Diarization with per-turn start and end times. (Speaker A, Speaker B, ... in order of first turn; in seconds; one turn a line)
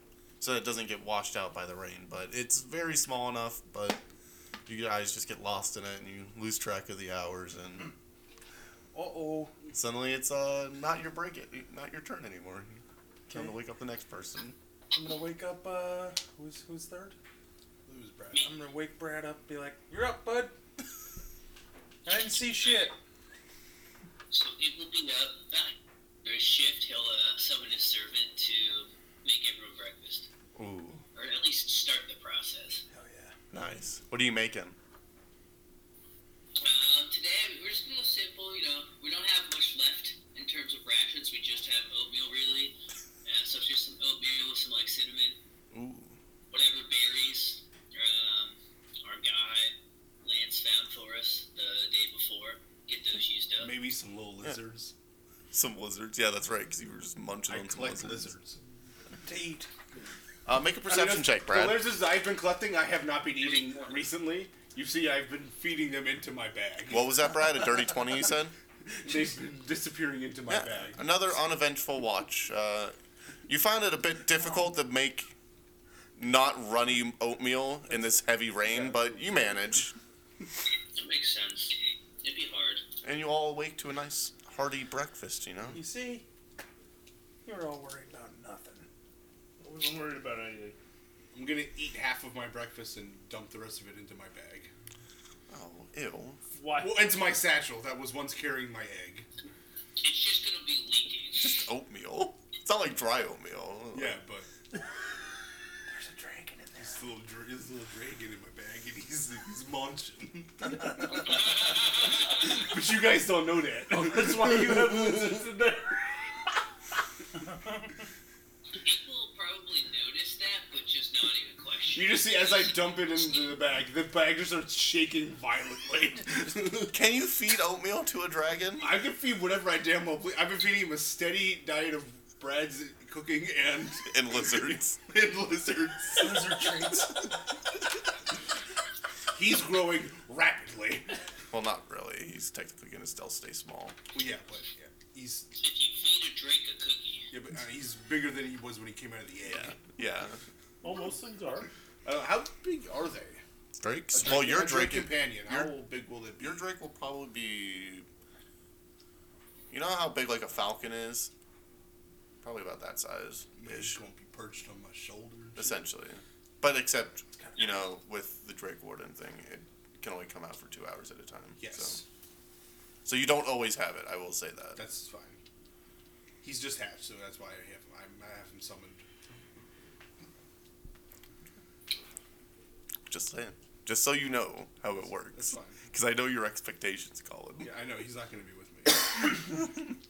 Speaker A: 0.4-4.0
Speaker A: 4.7-7.9
Speaker B: 8.9-9.5
Speaker A: 9.7-14.6
Speaker B: 14.9-17.2
Speaker C: 17.9-18.4
Speaker B: 18.4-20.5
Speaker B: 22.1-23.0
Speaker D: 22.3-23.0
Speaker D: 24.3-30.3
Speaker A: 30.6-31.0
Speaker D: 31.1-32.8
Speaker B: 32.9-33.4
Speaker A: 33.5-34.8
Speaker D: 36.6-45.4
Speaker A: 45.7-46.2
Speaker D: 46.5-53.8
Speaker C: 53.6-54.9
Speaker A: 55.5-58.3
Speaker C: 57.5-58.6
Speaker B: 59.2-59.7
Speaker A: 60.5-61.9
Speaker C: 60.9-67.2
Speaker D: 63.4-64.1
Speaker A: 66.9-68.5
Speaker C: 68.9-71.1
Speaker A: 70.5-73.0
Speaker A: 73.5-75.3
Speaker A: 76.2-80.0
Speaker C: 78.7-79.6
Speaker D: 81.0-82.8
Speaker A: 83.0-85.8
Speaker B: 85.7-86.2
Speaker B: 87.5-88.9
Speaker E: 89.6-90.8
Speaker C: 91.3-94.7
Speaker A: 95.5-96.4
Speaker E: 96.5-97.2
Speaker C: 96.8-99.3
Speaker D: 100.0-101.6
Speaker A: 101.4-104.2
Speaker C: 103.9-104.5
Speaker B: 105.9-107.1
Speaker C: 106.8-115.5
Speaker E: 114.0-116.0
Speaker D: 118.8-123.6
Speaker C: 121.9-127.0
Speaker A: 126.9-129.0
Speaker C: 128.8-134.4
Speaker A: 134.1-136.2
Speaker C: 135.1-136.3
Speaker B: 136.2-137.3
Speaker C: 139.3-141.1
Speaker A: 141.5-144.0
Speaker C: 144.1-145.5
Speaker D: 145.6-147.3
Speaker C: 147.3-149.8
Speaker A: 149.4-150.4
Speaker E: 150.8-151.7
Speaker C: 152.0-153.4
Speaker A: 153.8-155.7
Speaker C: 154.1-156.7
Speaker A: 156.4-158.1
Speaker A: 159.7-161.3
Speaker A: 162.4-164.0
Speaker C: 163.6-165.8
Speaker A: 165.6-172.0
Speaker B: 167.4-167.7
Speaker C: 171.6-172.1
Speaker A: 173.1-174.8
Speaker C: 174.8-175.4
Speaker C: 176.4-179.0
Speaker A: 183.1-187.7
Speaker C: 185.3-185.8
Speaker C: 187.6-189.5
Speaker A: 189.4-189.8